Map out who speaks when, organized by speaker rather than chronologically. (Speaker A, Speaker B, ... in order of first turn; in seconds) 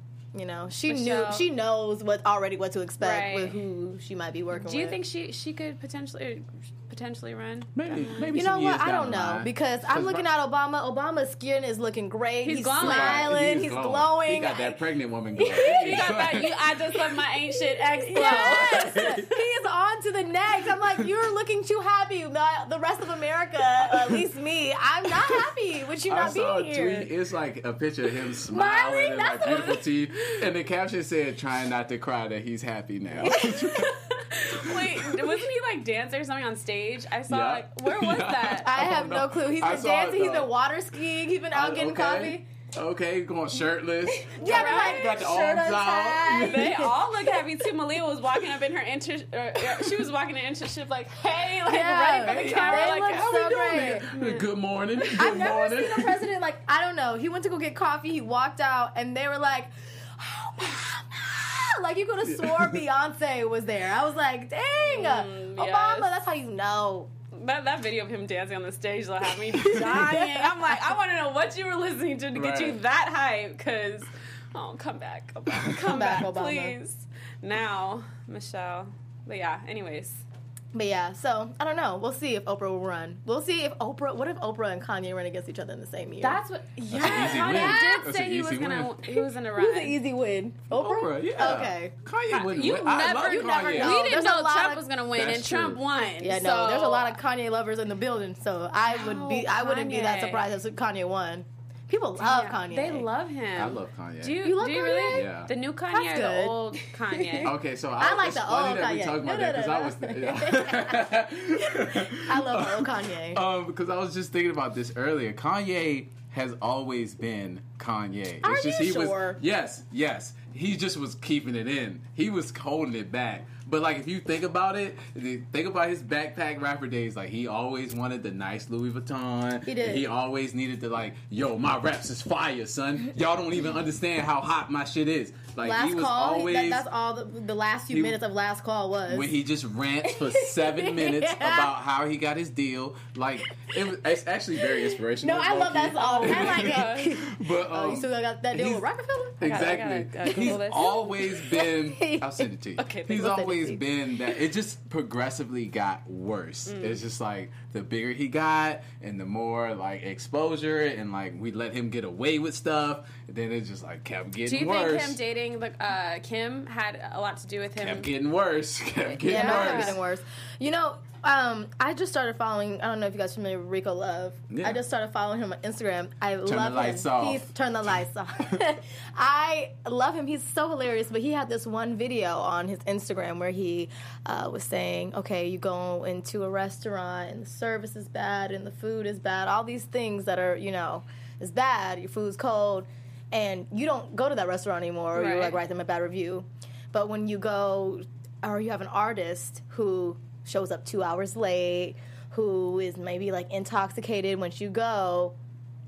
Speaker A: 0.3-5.0, 8.3-14.8, 15.4-16.3, 17.5-27.1, 28.5-29.9, 33.2-34.0, 38.6-42.5, 44.2-47.1, 51.6-54.1, 55.2-67.1, 69.5-70.8, 75.7-76.8, 80.7-88.0, 89.1-91.9, 93.2-94.8, 96.2-103.1, 104.4-105.3, 105.9-113.4, 118.4-119.4, 129.7-130.1, 135.6-139.3, 140.0-141.7, 144.6-150.6, 151.4-152.5, 153.1-154.2, 169.2-205.4
Speaker B: 0.8-1.5, 3.0-3.6, 4.5-8.3, 12.4-13.3, 15.5-19.2, 33.5-38.7, 44.3-45.1, 46.3-55.3, 64.8-66.1, 67.3-80.2, 86.2-90.0, 92.3-97.2, 98.9-100.5, 102.2-107.5, 146.0-147.2, 149.4-151.2, 152.8-153.4, 156.7-157.0, 164.5-168.1, 169.1-170.0, 195.1-195.6
Speaker C: 7.8-10.2, 12.8-16.6, 18.2-19.3, 26.1-34.0, 37.3-40.5, 41.5-46.8, 52.2-56.3, 62.3-62.8, 72.3-72.8, 86.9-89.1, 90.7-94.0, 95.2-95.8, 103.6-104.5, 105.1-105.5, 107.4-136.8, 137.9-138.2, 139.1-148.8, 149.4-165.2, 167.8-170.0, 174.5-174.8, 176.5-177.5